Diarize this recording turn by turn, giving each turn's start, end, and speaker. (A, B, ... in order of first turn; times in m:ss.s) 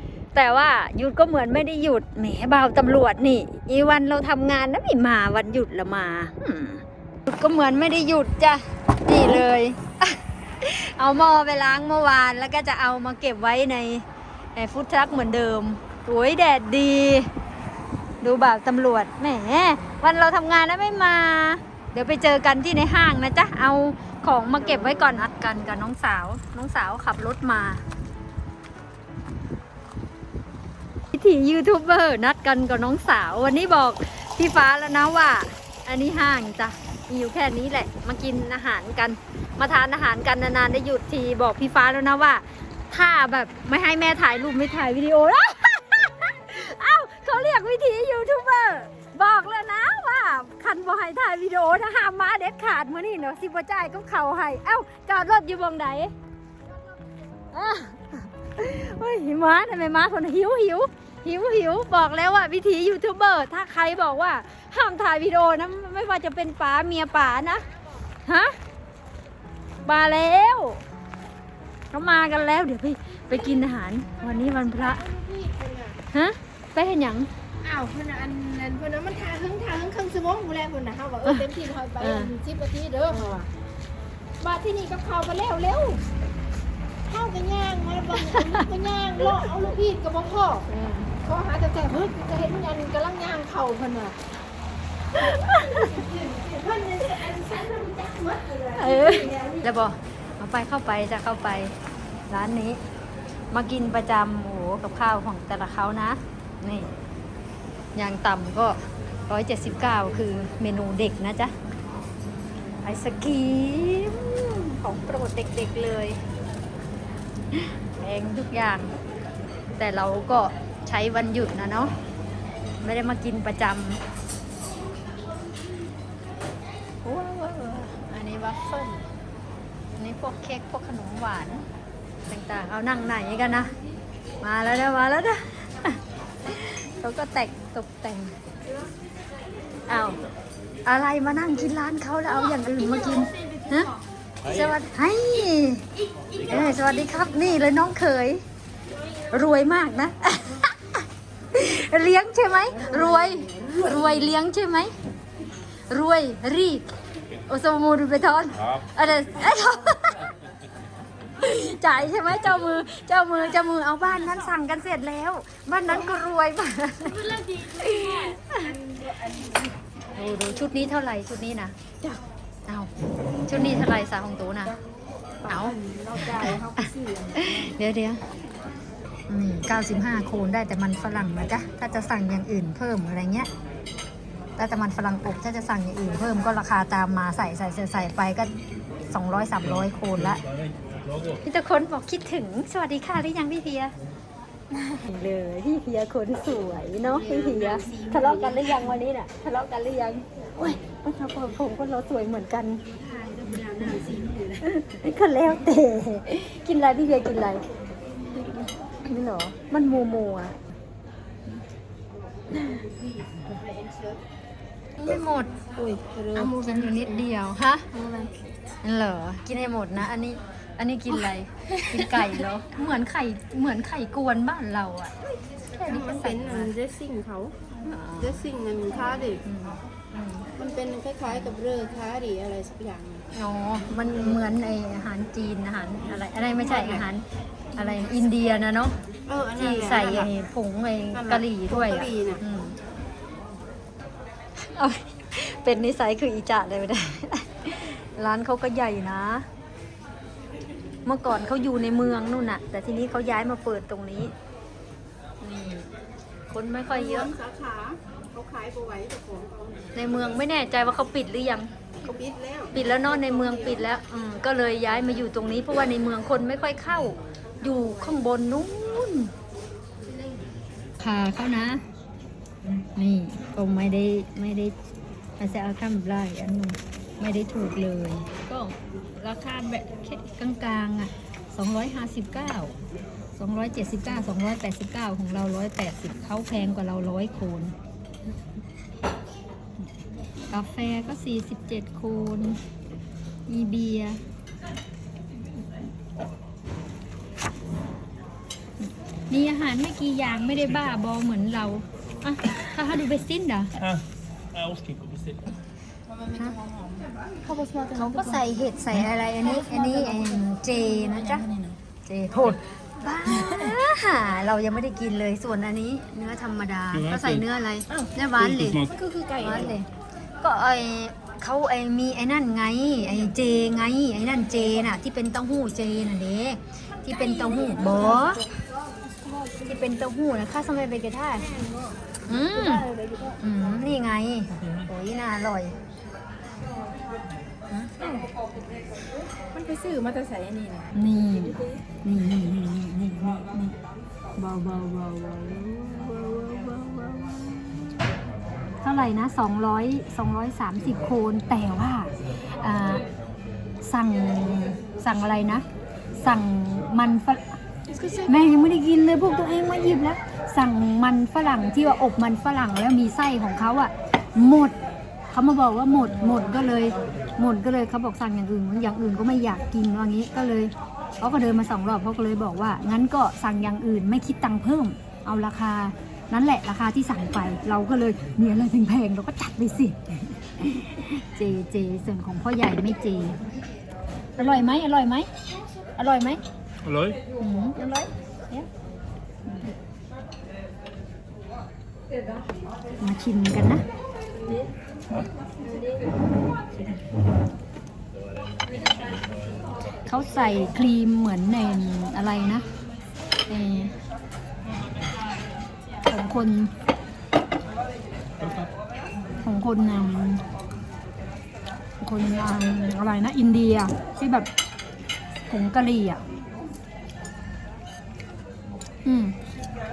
0:00.3-0:17.3 A
0:18.2-0:27.8 A
0:24.6-0:25.2 B
0:31.1-0:56.1 A
0:57.5-1:07.7 A
1:08.2-1:08.6 A
1:09.9-1:10.8 A
1:11.9-1:15.0 A
1:14.2-1:16.0 B
1:16.1-1:17.3 A
1:17.6-1:23.5 B
1:22.0-1:22.3 A
1:23.1-1:23.4 A
1:24.4-1:26.0 B
1:27.1-1:30.7 B
1:28.2-1:28.6 A
1:30.7-1:31.1 A
1:31.2-1:34.2 B
1:35.2-1:36.0 A
1:35.8-1:39.6 B
1:38.8-1:41.7 A
1:42.3-1:42.8 A
1:43.5-1:46.9 A
1:48.0-1:51.5 A
1:52.8-1:56.2 A
1:57.5-1:59.0 A
1:59.8-2:01.9 A
2:02.8-2:04.0 A
2:07.0-2:09.0 A
2:10.0-2:11.7 A
2:12.3-2:13.7 A
2:14.4-2:18.4 A
2:19.9-2:20.2 A
2:20.9-2:23.9 A
2:24.4-2:28.4 A
2:29.3-2:31.0 A
2:31.5-2:34.9 A
2:32.9-2:33.8 B
2:35.9-2:36.9 A
2:37.5-2:40.3 A
2:41.4-2:48.7 A
2:47.3-2:49.7 B
2:50.2-2:51.8 A
2:53.5-2:54.8 A
2:55.5-2:57.7 B
2:55.5-2:58.2 A
2:59.3-3:03.5 A
3:04.6-3:08.5 A
3:09.1-3:10.4 A
3:11.4-3:14.0 A
3:14.8-3:22.8 A
3:17.1-3:19.0 B
3:22.9-3:24.7 B
3:24.6-3:27.6 A
3:29.0-3:30.6 A
3:33.3-3:34.2 B
3:35.0-3:35.6 A
3:35.7-3:37.3 B
3:36.4-3:37.9 A
3:37.9-3:38.4 B
3:38.8-3:45.2 A
3:41.9-3:42.3 B
3:45.7-3:46.7 A
3:45.8-3:47.6 B
3:47.8-3:48.4 A
3:48.2-3:49.4 B
3:49.4-3:50.5 A
3:50.6-3:53.3 B
3:53.3-3:59.0 A
3:56.5-3:57.1 B
3:59.3-4:00.3 B
3:59.6-4:02.8 A
4:01.1-4:02.4 B
4:04.7-4:09.5 A
4:11.0-4:14.3 A
4:15.4-4:15.9 A
4:16.5-4:17.3 A
4:16.9-4:19.9 B
4:20.0-4:21.7 A
4:22.0-4:23.8 B
4:22.7-4:29.3 A
4:30.2-4:30.4 B
4:31.0-4:31.8 A
4:32.9-4:34.8 A
4:35.4-4:42.8 A
4:43.4-4:47.8 A
4:50.5-4:52.6 A
4:53.5-4:54.2 A
4:59.3-5:03.8 A
5:03.8-5:05.4 C
5:06.2-5:08.5 B
5:07.9-5:11.5 A
5:09.7-5:10.4 B
5:11.3-5:11.8 B
5:12.1-5:18.9 A
5:18.9-5:19.8 B
5:19.4-5:19.9 A
5:20.4-5:28.5 A
5:27.5-5:28.4 B
5:29.1-5:29.6 B
5:29.6-5:31.5 A
5:31.4-5:33.4 B
5:32.3-5:32.9 A
5:33.4-5:35.8 A
5:37.7-5:38.2 A
5:39.5-5:40.9 B
5:40.9-5:43.8 A
5:44.4-5:47.9 A
5:48.8-5:53.0 A
5:53.8-5:55.6 A
5:56.2-5:57.6 A
5:57.9-5:58.3 B
5:58.2-6:04.8 A
6:05.3-6:23.4 A
6:24.4-6:25.3 A
6:26.0-6:26.4 A
6:26.8-6:27.2 C
6:27.4-6:28.7 A
6:33.0-6:33.8 A
6:40.1-6:42.6 A
6:43.5-6:43.9 A
6:46.0-6:46.7 A
6:48.4-6:48.7 C
6:49.4-6:50.4 A
6:52.0-6:54.5 A
6:55.5-6:56.2 A
6:59.0-6:59.4 A